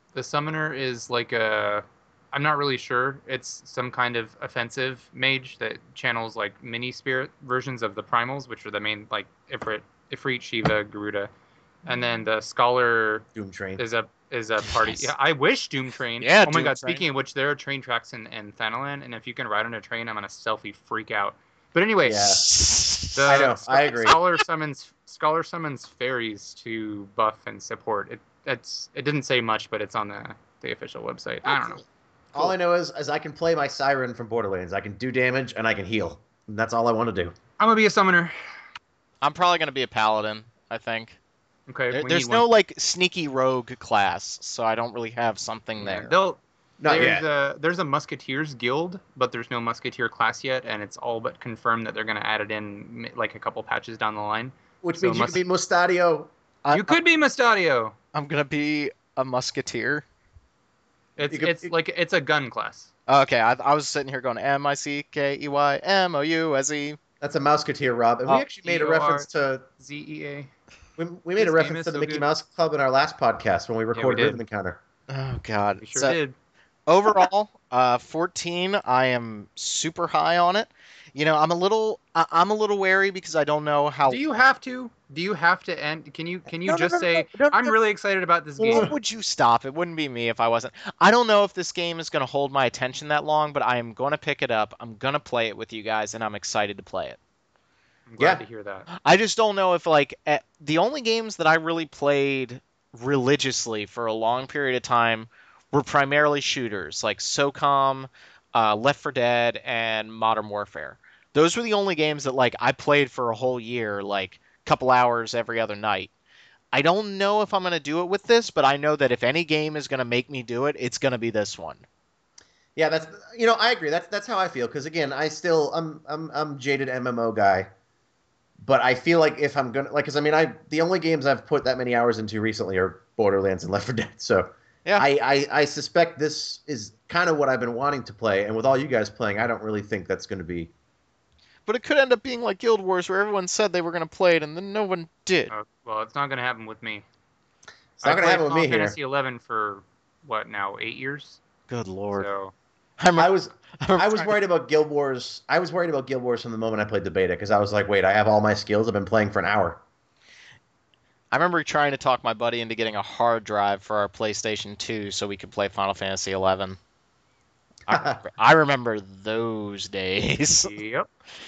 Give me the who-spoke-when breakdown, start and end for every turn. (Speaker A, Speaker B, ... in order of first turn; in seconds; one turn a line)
Speaker A: 0.1-11.3
Speaker A: 11.9-13.2
Speaker B: 13.4-13.8
Speaker A: 13.8-22.5
Speaker C: 14.7-15.1
Speaker C: 16.2-17.0
Speaker B: 22.0-22.5
Speaker C: 22.5-23.2
Speaker A: 23.1-31.8
Speaker B: 23.2-24.2
Speaker C: 31.5-31.8
Speaker B: 32.3-37.4
Speaker A: 37.6-38.3
Speaker C: 39.2-41.2
Speaker A: 41.7-42.5
Speaker C: 41.9-46.1
Speaker A: 45.8-55.4
Speaker B: 46.8-47.3
Speaker B: 54.8-56.3
Speaker C: 56.6-57.0
Speaker A: 56.7-58.0
Speaker C: 58.1-60.0
Speaker A: 61.2-62.9
Speaker B: 61.3-61.7
Speaker C: 63.1-67.0
Speaker B: 67.2-69.6
Speaker A: 68.6-69.3
Speaker A: 69.8-70.5
Speaker B: 71.0-74.8
Speaker A: 71.4-72.3
Speaker A: 73.9-74.4
Speaker C: 75.1-76.2
Speaker A: 75.8-76.3
Speaker C: 76.9-84.3
Speaker A: 84.1-88.9
Speaker C: 86.5-87.8
Speaker C: 88.6-97.2
Speaker B: 88.7-88.9
Speaker A: 98.1-98.9
Speaker C: 98.9-116.1
Speaker C: 116.7-121.8
Speaker B: 122.8-127.7
Speaker B: 128.6-140.7
Speaker C: 141.7-145.5
Speaker A: 145.5-147.1
Speaker A: 148.0-151.4
Speaker B: 148.0-149.0
Speaker C: 151.7-152.3
Speaker A: 152.1-152.5
Speaker C: 153.0-154.3
Speaker B: 153.2-159.8
Speaker C: 161.3-166.8
Speaker C: 167.9-170.7
Speaker B: 167.9-168.2
Speaker A: 170.6-171.1